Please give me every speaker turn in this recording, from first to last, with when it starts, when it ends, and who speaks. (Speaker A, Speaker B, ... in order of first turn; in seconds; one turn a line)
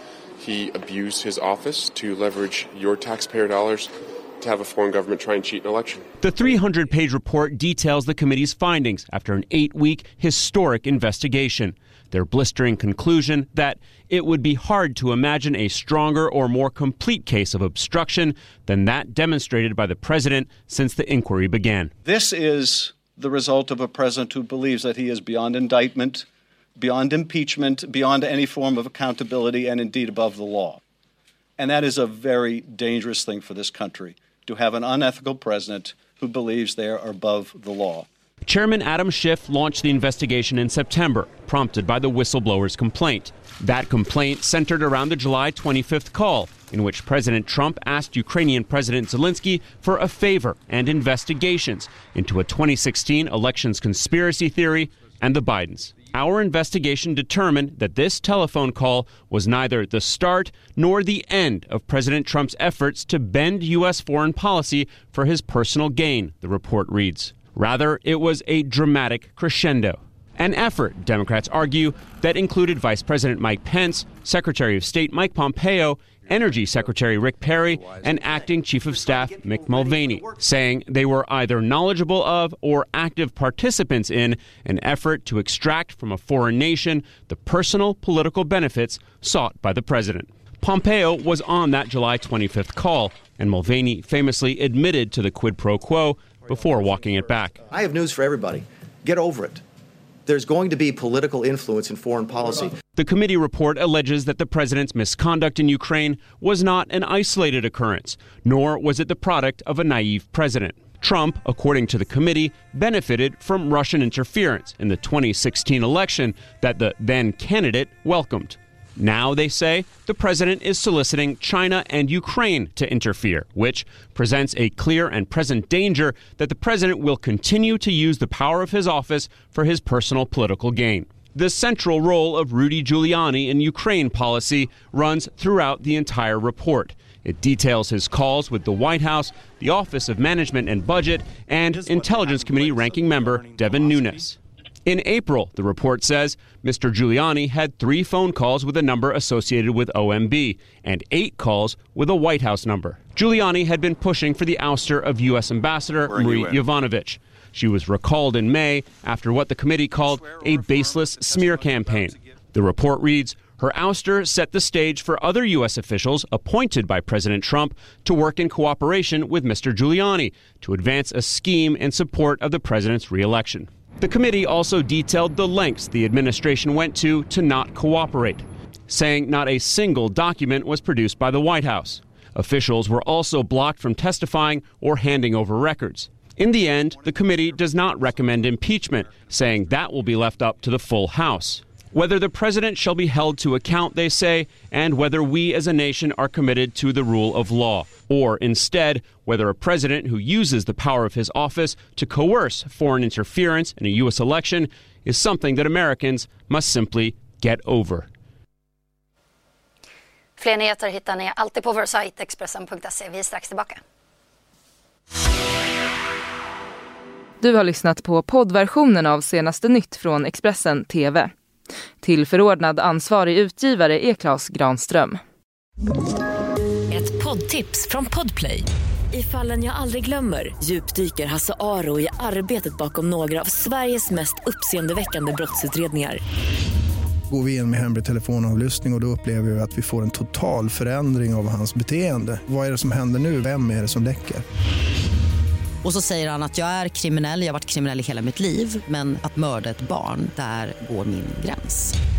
Speaker A: 0.4-6.0
Speaker B: 6.2-21.9
Speaker C: 22.0-26.2
Speaker C: 26.8-30.8
Speaker C: 31.6-38.0
Speaker B: 38.4-97.6
Speaker D: 96.5-99.6
Speaker D: 100.2-102.7
Speaker B: 103.0-208.1
Speaker E: 210.4-213.8
Speaker F: 217.4-221.3
Speaker F: 222.0-225.2
Speaker G: 226.9-236.2
Speaker H: 237.3-244.4
Speaker I: 245.8-252.0